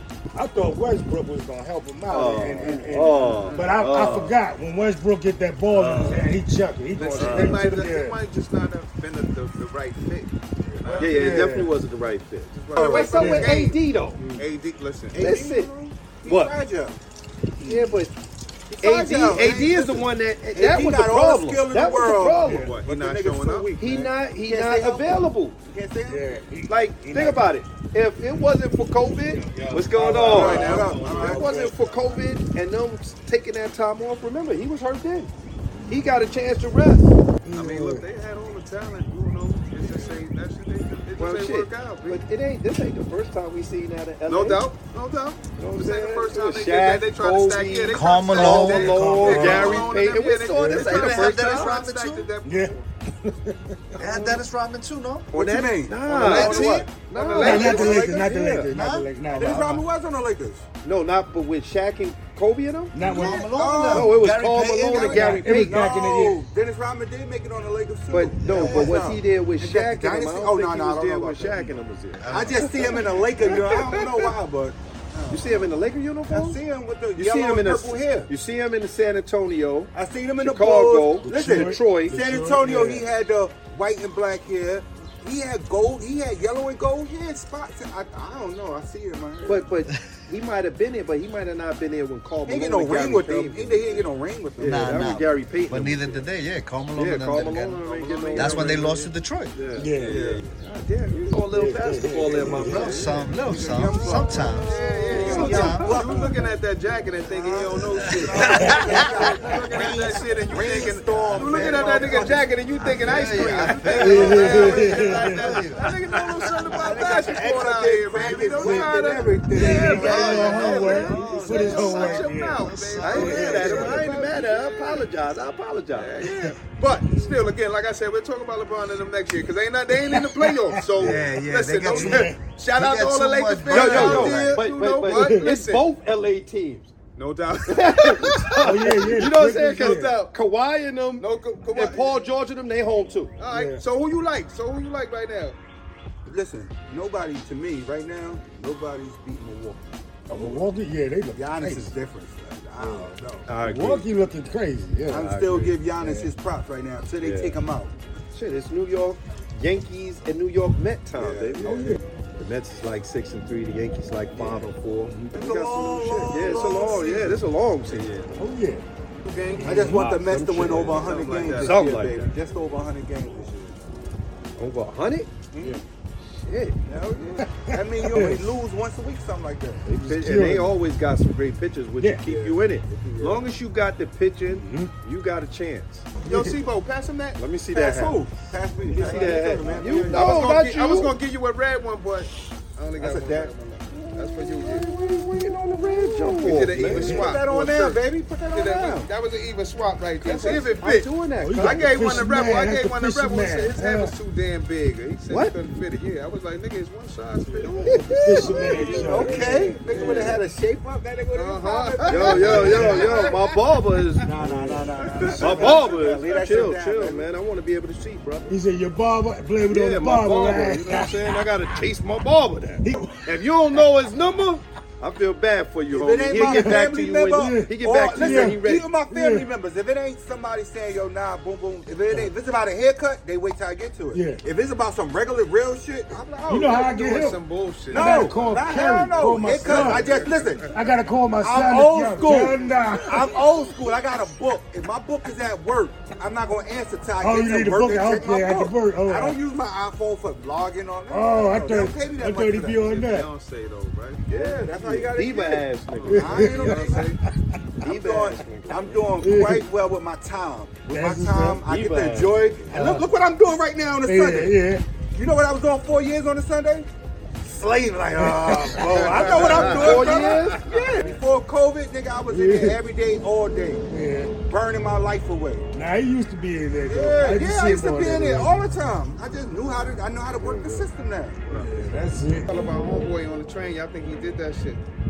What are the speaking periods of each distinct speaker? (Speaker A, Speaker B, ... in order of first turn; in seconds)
Speaker A: 0.3-8.2, 10.8-11.7, 13.1-13.5, 14.2-14.4, 17.6-17.9, 22.4-22.8, 26.1-27.5, 29.9-31.8, 37.5-38.0, 48.6-49.8, 52.5-54.2, 57.4-59.9, 62.9-63.5, 65.0-66.5, 81.2-83.1, 99.8-100.2, 101.5-103.0, 108.4-109.0, 114.0-115.5, 118.4-124.1, 129.9-131.2, 131.8-132.4, 135.1-135.5, 138.6-140.2, 143.5-143.8, 150.3-151.9, 152.8-155.3, 155.9-156.3, 161.6-162.0, 164.3-165.4, 168.4-168.8, 169.6-170.1, 177.4-178.5, 179.8-180.8, 184.5-184.9, 186.3-186.5, 196.8-197.3, 201.4-204.2, 207.9-209.8, 212.6-213.2, 214.3-215.3, 218.5-221.4, 222.8-223.2, 226.3-229.5, 234.1-234.4, 236.5-237.4, 237.9-243.4, 247.2-249.4, 251.1-253.3, 256.1-257.3, 259.2-259.7, 260.9-261.6, 262.7-263.1, 264.0-264.9, 268.1-270.1, 272.2-272.8, 273.9-274.4, 275.7-278.6, 281.5-282.5
Speaker B: 2.1-4.4, 5.8-6.3, 11.0-14.2, 15.2-15.7, 16.2-16.6, 17.6-18.1, 18.8-22.7, 23.8-25.6, 26.7-35.3, 35.9-37.1, 41.2-44.7, 45.6-51.8, 55.3-58.1, 60.8-63.0, 63.9-65.8, 68.1-73.7, 75.3-76.6, 77.1-82.2, 89.5-96.3, 96.9-99.0, 99.5-103.3, 104.5-106.0, 111.8-112.3, 113.1-114.9, 115.8-117.3, 123.0-126.3, 133.7-136.9, 137.7-143.3, 153.5-154.1, 155.2-155.8, 157.2-157.6, 158.3-168.1, 169.7-172.3, 174.6-175.3, 176.3-176.8, 179.9-186.1, 187.4-188.2, 188.9-191.2, 193.9-197.2, 200.2-201.8, 205.3-205.5, 207.8-210.4, 212.1-214.3, 215.3-218.5, 219.7-228.9, 254.8-256.9, 257.8-259.1, 261.6-262.6, 269.6-270.6
Speaker C: 3.4-3.7, 5.8-6.2, 7.0-11.4, 12.5-15.3, 22.5-24.1, 29.3-32.2, 37.5-42.2, 44.3-52.9, 56.1-58.3, 73.5-73.9, 97.8-99.1, 100.0-100.4, 104.5-125.1, 125.9-135.9, 137.2-140.3, 141.2-142.2, 143.4-145.6, 166.4-167.2, 167.8-168.4, 169.2-169.8, 170.8-171.8, 182.3-182.6, 186.2-187.4, 188.9-194.9, 196.2-209.2, 209.9-210.3, 211.3-213.4, 215.3-216.2, 236.1-240.7, 252.9-254.7, 255.9-257.2, 268.8-271.0, 276.9-277.4, 281.5-281.7, 282.5-284.8
Speaker D: 12.8-13.2, 15.1-17.0, 18.7-23.7, 24.4-26.4, 30.1-31.5, 55.3-58.7, 59.3-60.6, 63.0-64.2, 64.9-75.8, 76.3-78.3, 79.9-89.7, 92.5-95.1, 103.0-106.5, 107.2-110.0, 110.5-114.7, 116.8-121.3, 146.3-150.7, 151.3-153.5, 155.1-157.9, 161.2-161.8, 165.3-167.4, 169.4-173.8, 175.5-175.8, 176.9-179.8, 182.9-183.4, 187.7-190.4, 193.0-193.5, 197.0-199.1, 200.3-200.8, 207.7-213.5, 214.2-217.3, 225.9-237.3, 237.9-240.7, 241.4-252.9, 254.3-257.2, 257.8-266.9, 267.4-273.8, 274.5-275.7, 277.2-281.5
Speaker E: 47.9-49.9, 50.5-52.3, 54.0-55.3, 56.2-56.9, 58.5-59.7, 63.0-65.5, 68.6-68.9, 72.2-73.3, 94.6-97.8, 98.3-99.6, 102.5-105.9, 107.9-110.5, 111.3-111.8, 112.8-116.9, 119.7-124.0, 131.0-134.6